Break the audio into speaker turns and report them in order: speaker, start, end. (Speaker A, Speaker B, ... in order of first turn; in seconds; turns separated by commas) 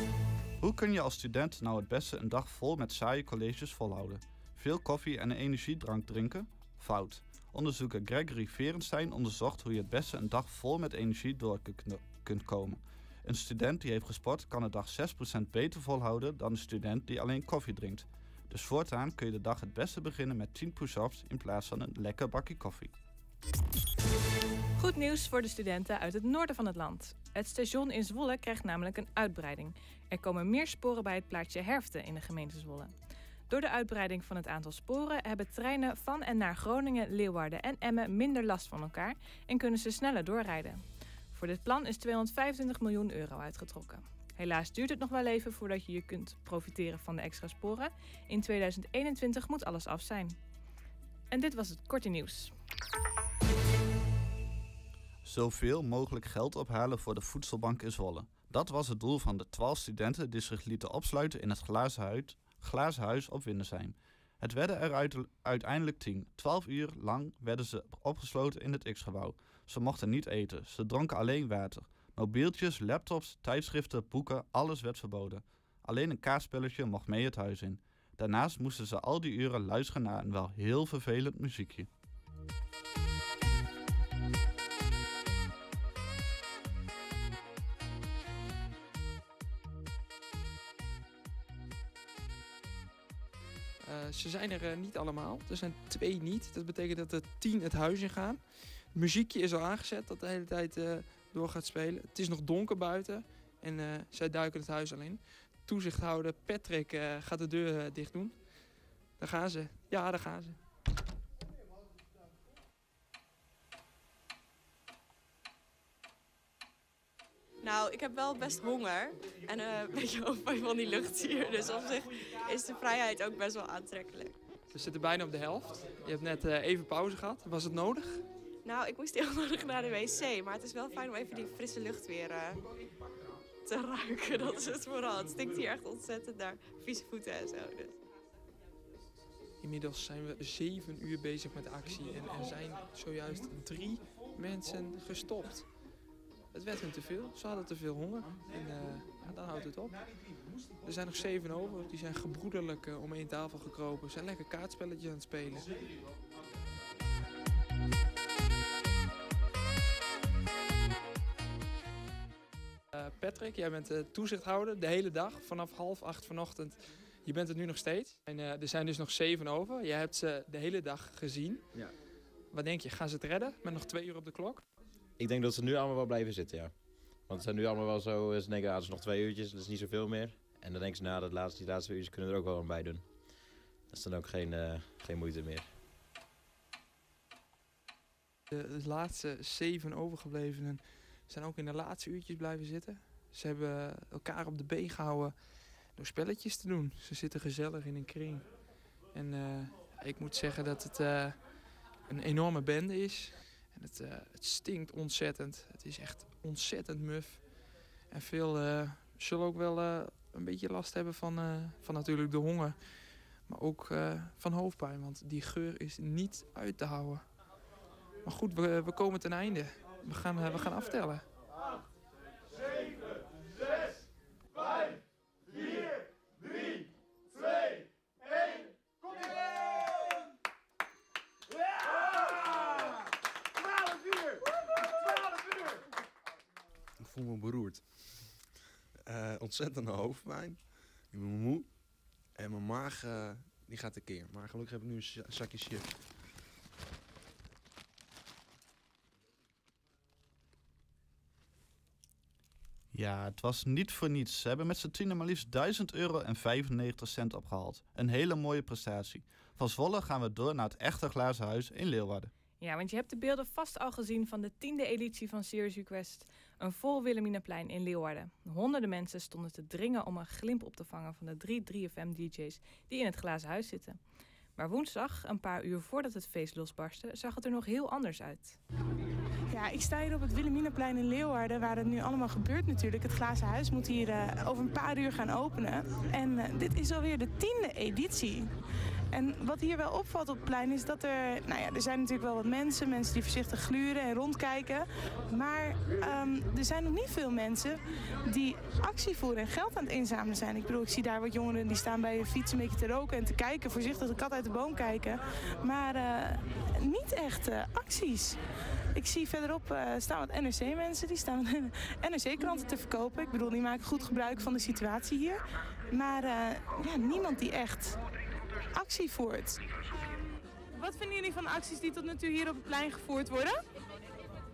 Speaker A: 0.6-22.9, Speaker B: 24.8-32.9, Speaker B: 33.5-40.8, Speaker B: 41.3-50.4, Speaker B: 51.3-52.5, Speaker A: 55.2-81.9, Speaker C: 93.8-110.6, Speaker D: 117.6-124.4, Speaker C: 124.7-128.2, Speaker D: 128.6-132.7, Speaker D: 133.7-138.0, Speaker C: 139.6-145.8, Speaker C: 146.5-155.8, Speaker C: 162.9-171.9, Speaker C: 172.4-174.6, Speaker E: 175.2-183.3, Speaker E: 183.9-185.7, Speaker C: 188.5-217.6, Speaker C: 218.2-221.3, Speaker F: 237.0-238.4, Speaker F: 239.1-241.8, Speaker F: 242.3-246.0, Speaker A: 252.9-262.3, Speaker B: 262.6-274.0, Speaker B: 274.6-278.6, Speaker G: 279.5-288.5, Speaker G: 289.1-308.4, Speaker G: 308.9-315.4, Speaker G: 315.9-318.0, Speaker G: 318.7-319.6, Speaker G: 320.7-323.6